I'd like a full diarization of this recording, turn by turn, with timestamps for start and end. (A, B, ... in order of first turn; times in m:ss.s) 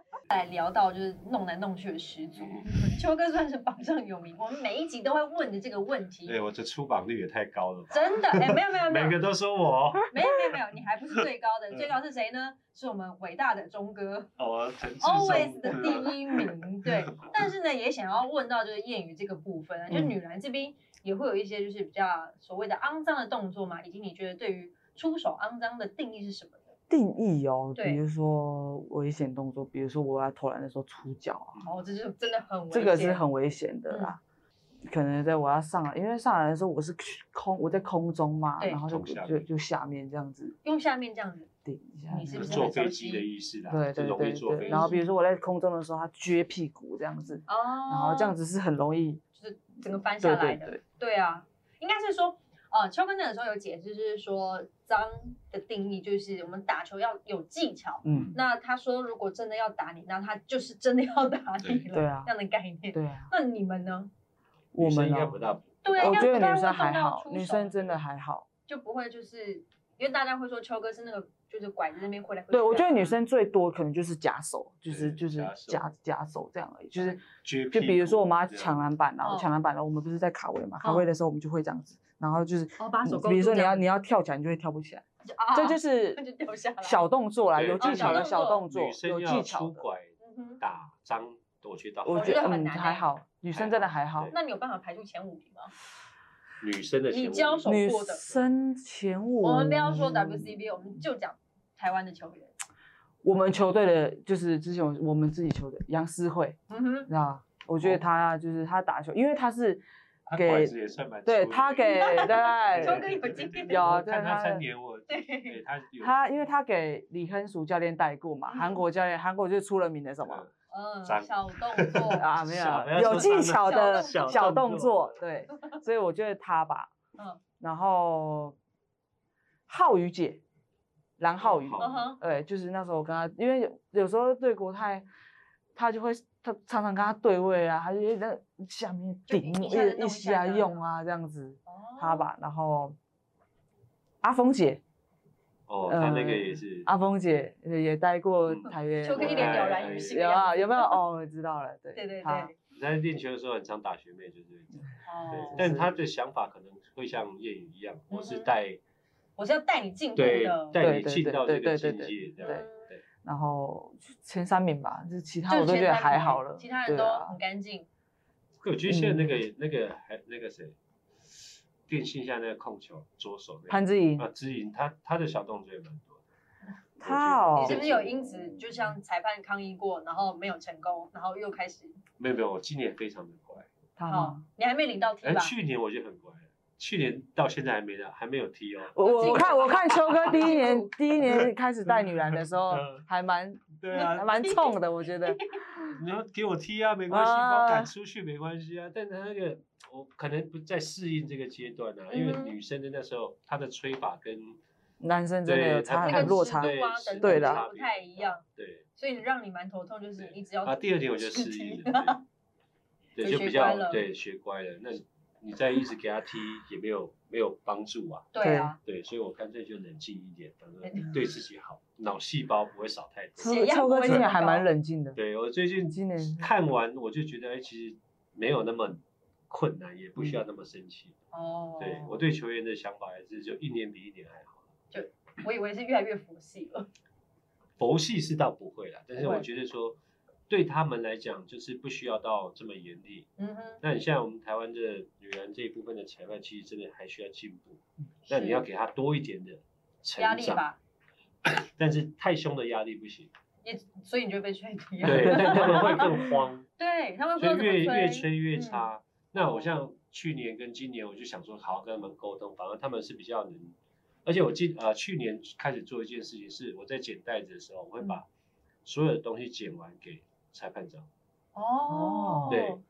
0:00.3-0:06.4 A
0:02.4-0:02.7 B
0:06.2-0:10.1 B
0:07.9-0:09.2 A
0:10.1-0:14.3 A
0:14.4-0:17.4 B
0:15.0-0:26.7 A
0:19.9-0:20.1 C
0:26.9-0:31.6 C
0:27.7-0:28.0 A
0:31.6-0:33.2 A
0:32.7-0:34.2 C
0:33.9-0:34.2 A
0:34.9-0:40.6 C
0:38.8-0:39.5 B
0:40.6-0:41.5 A
0:41.6-0:42.7 C
0:42.1-0:43.2 A
0:42.3-0:45.0 B
0:43.7-0:49.2 C
0:44.6-0:45.0 A
0:47.5-0:48.3 A
0:49.4-1:04.1 A
0:50.2-0:50.8 C
0:58.0-0:58.4 C
0:58.0-0:58.4 B
1:01.9-1:02.3 C
1:02.9-1:03.3 C
1:04.7-1:05.4 C
1:04.8-1:06.4 B
1:05.8-1:07.9 A
1:05.9-1:08.4 C
1:08.7-1:13.2 A
1:12.5-1:17.2 C
1:14.9-1:15.8 B
1:17.0-1:18.8 B
1:17.7-1:26.2 C
1:19.2-1:19.5 A
1:20.8-1:21.1 A
1:22.8-1:23.8 A
1:25.2-1:27.0 A
1:26.8-1:29.8 C
1:27.5-1:32.4 B
1:27.8-1:28.6 A
1:30.2-1:30.6 A
1:32.0-1:34.3 C
1:32.1-1:33.1 A
1:33.5-1:34.3 B
1:34.3-1:35.7 A
1:36.6-1:37.7 B
1:37.1-1:38.4 A
1:37.6-1:40.6 C
1:39.4-1:42.5 A
1:43.2-1:49.8 C
1:46.7-1:47.1 A
1:47.8-1:48.0 B
1:50.3-1:56.2 B
1:50.4-1:53.1 C
1:51.8-1:53.9 A
1:53.7-1:54.6 C
1:55.1-1:55.6 A
1:56.0-2:00.4 C
1:58.5-1:58.8 A
2:00.7-2:02.3 A
2:01.0-2:05.2 B
2:02.1-2:06.9 C
2:03.0-2:04.3 A
2:07.6-2:08.6 C
2:09.7-2:10.4 C
2:11.2-2:15.0 C
2:11.4-2:12.0 B
2:11.8-2:12.2 A
2:15.7-2:23.0 C
2:19.3-2:20.8 A
2:21.6-2:22.3 A
2:24.2-2:24.8 C
2:25.7-2:26.9 B
2:25.9-2:32.5 C
2:28.5-2:30.3 B
2:29.0-2:31.0 A
2:31.9-2:32.5 A
2:32.7-2:38.8 B
2:35.0-2:35.6 A
2:35.4-2:35.9 C
2:38.1-2:38.5 A
2:39.4-2:40.8 A
2:40.2-2:43.0 B
2:40.8-2:42.7 C
2:42.4-2:42.9 A
2:43.2-2:47.4 C
2:45.5-2:47.9 A
2:48.6-2:50.7 B
2:48.9-2:49.3 C
2:51.9-2:56.2 B
2:53.7-2:54.3 C
2:57.0-2:57.9 C
2:57.0-2:58.3 B
2:57.5-3:02.0 A
3:02.2-3:03.7 B
3:04.0-3:04.4 C
3:04.1-3:05.5 A
3:05.2-3:09.5 B
3:08.9-3:15.9 C
3:09.0-3:11.1 A
3:11.3-3:13.0 B
3:13.8-3:14.4 B
3:13.9-3:15.8 A
3:15.9-3:24.6 B
3:17.1-3:17.9 C
3:22.1-3:22.6 A
3:25.0-3:27.6 C
3:25.4-3:28.8 B
3:26.0-3:28.4 A
3:29.0-3:32.2 A
3:30.2-3:32.2 B
3:33.2-3:38.3 B
3:33.2-3:34.0 A
3:38.3-3:38.8 A
3:38.4-3:38.7 C
3:38.8-3:44.3 B
3:40.8-3:41.1 A
3:43.4-3:45.2 C
3:43.4-3:44.7 A
3:45.1-3:51.1 B
3:45.9-3:46.5 C
3:51.3-3:52.2 A
3:51.8-3:54.7 B
3:54.9-3:56.9 A
3:57.8-4:00.0 B
3:59.2-3:59.4 A
4:00.5-4:03.3 B
4:03.4-4:03.8 A
4:03.8-4:10.6 B
4:08.3-4:08.6 A
4:10.2-4:10.8 A
4:11.4-4:13.3 B
4:13.6-4:16.2 A
4:15.0-4:16.7 B
4:15.0-4:16.3 C
4:16.8-4:19.8 A
4:17.4-4:28.2 B
4:28.8-4:31.1 B
4:31.5-4:32.8 A
4:31.9-4:32.6 C
4:32.5-4:32.8 B